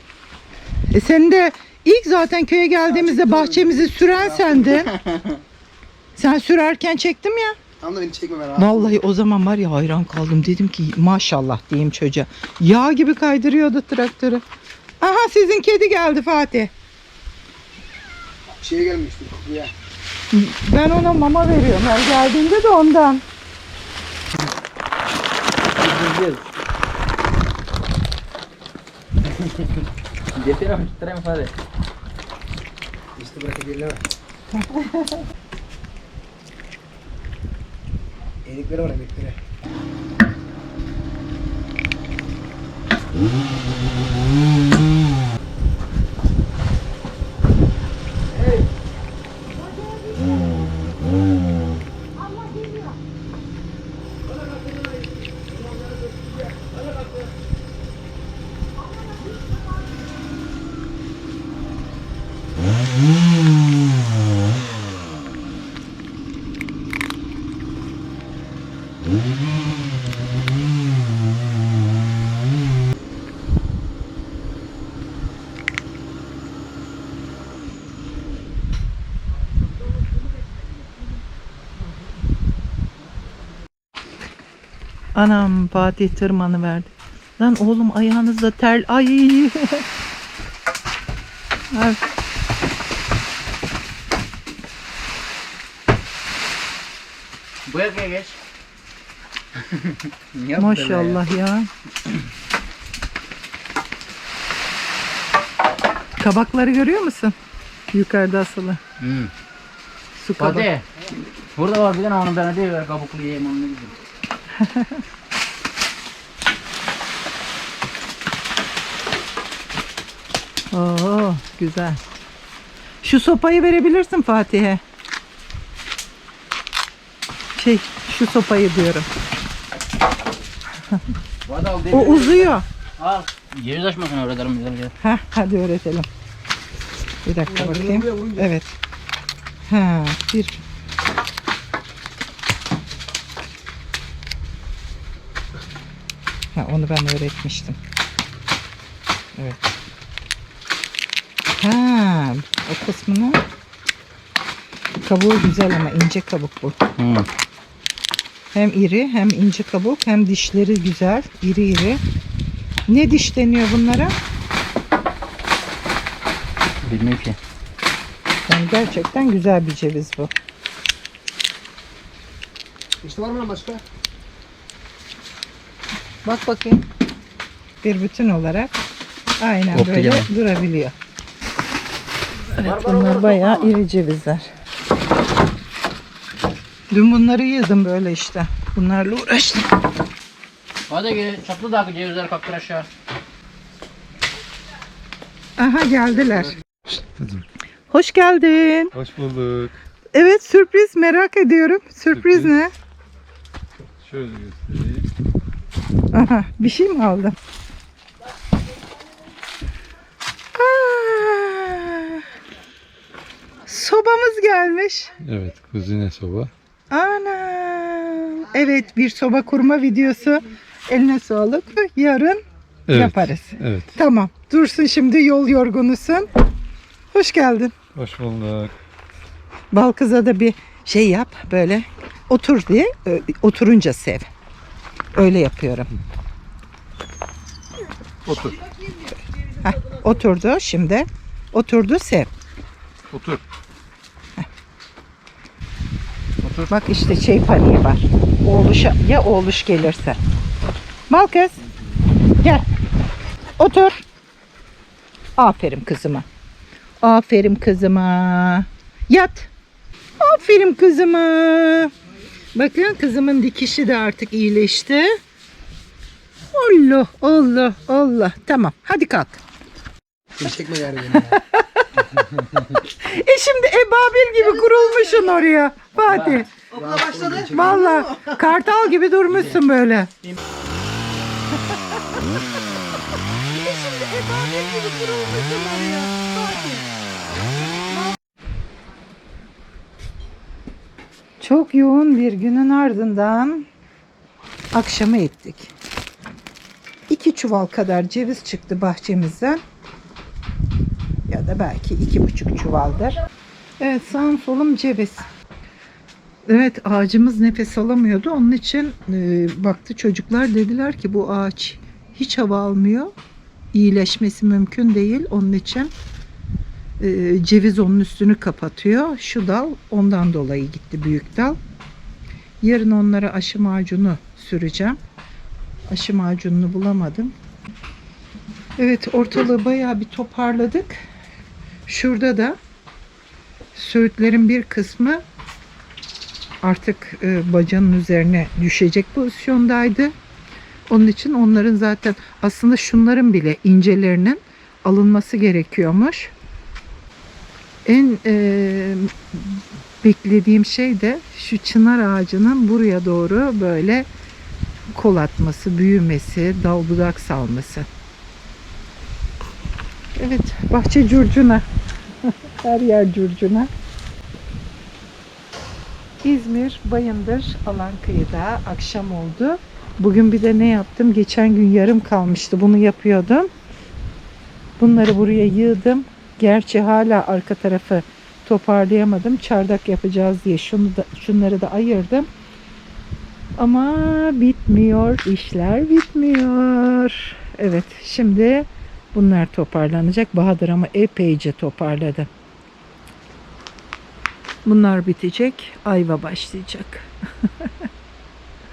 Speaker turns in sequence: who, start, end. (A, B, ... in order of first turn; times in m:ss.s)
0:00.9-0:04.9 A
0:02.8-0:04.9 B
0:05.0-0:05.2 C
0:06.2-0:07.6 A
0:07.8-0:09.0 B
0:08.6-0:14.4 A
0:15.0-0:16.7 A
0:18.4-0:19.7 B
0:20.3-0:23.2 A
0:25.8-0:26.4 C
0:29.3-0:29.8 C
0:30.4-0:31.5 C
0:33.2-0:34.0 B
0:34.6-0:35.2 A
0:38.4-0:39.4 B
0:48.4-0:48.6 B
0:49.8-0:50.6 A
0:52.2-0:53.0 A
0:54.6-0:56.7 B
1:25.1-1:29.8 A
1:31.7-1:32.0 A
1:37.6-1:38.4 C
1:39.6-1:41.2 C
1:40.6-1:41.7 A
1:46.2-1:47.4 A
1:47.9-1:48.8 A
1:49.0-1:49.3 C
1:50.2-1:50.7 A
1:50.4-1:50.9 C
1:51.6-1:53.9 C
1:54.6-1:55.0 A
2:00.7-2:02.0 A
2:03.0-2:04.8 A
2:07.6-2:09.1 A
2:11.4-2:14.9 C
2:11.9-2:12.6 A
2:15.0-2:16.1 A
2:17.2-2:18.7 A
2:17.4-2:18.5 B
2:19.7-2:20.6 A
2:26.5-2:27.8 A
2:29.4-2:29.7 A
2:31.6-2:33.4 A
2:35.0-2:36.8 A
2:37.0-2:37.3 C
2:38.5-2:42.0 A
2:42.9-2:44.1 A
2:46.8-2:47.4 C
2:48.5-2:50.3 A
2:53.0-2:53.8 B
2:56.2-2:56.9 A
2:57.8-2:58.7 A
2:59.4-3:00.9 A
2:59.7-3:00.3 C
3:02.5-3:03.8 C
3:02.6-3:04.4 A
3:06.9-3:09.7 A
3:10.9-3:12.9 C
3:15.6-3:16.5 A
3:16.9-3:17.4 D
3:17.9-3:18.9 A
3:18.9-3:19.8 D
3:20.1-3:22.7 A
3:22.1-3:22.5 D
3:24.0-3:25.1 D
3:26.1-3:27.4 A
3:30.6-3:32.2 A
3:33.6-3:35.1 A
3:35.2-3:36.5 D
3:36.9-3:46.3 A
3:42.9-3:43.9 D
3:47.1-3:47.7 A
3:47.9-3:48.7 D
3:49.7-3:54.3 A
3:55.1-3:55.9 A
3:58.2-3:58.6 D
3:59.6-4:02.3 A
4:03.1-4:03.4 D
4:06.4-4:06.7 D
4:06.7-4:10.2 A
4:11.1-4:11.6 A
4:13.6-4:14.0 A
4:15.4-4:16.2 A
4:17.0-4:19.5 A
4:20.2-4:21.9 A
4:22.5-4:25.2 A
4:26.5-4:29.4 A
4:30.4-4:31.4 B
4:31.2-4:31.9 A
4:32.9-4:36.5 A
4:36.0-4:36.4 C
4:36.7-4:38.1 B
4:37.4-4:40.1 A
4:39.3-4:39.6 C
4:41.5-4:42.2 A
4:43.6-4:46.8 A
4:51.4-4:53.7 A
4:54.7-4:55.7 A
4:57.1-4:59.6 A
5:01.3-5:03.2 A
5:03.8-5:05.3 A
5:06.5-5:13.1 A
5:13.7-5:15.9 A
5:17.0-5:21.6 A
5:22.6-5:25.0 A
5:25.9-5:27.3 A
5:28.8-5:31.1 A
5:31.9-5:32.6 A
5:33.7-5:35.2 A
5:36.6-5:40.1 A
5:40.9-5:46.3 A
5:47.9-5:54.1 A
5:54.9-5:57.9 A
6:00.2-6:01.6 A
6:02.2-6:03.7 A
6:06.2-6:13.5 A
6:14.8-6:22.3 A
6:23.6-6:32.3 A
6:34.6-6:37.7 A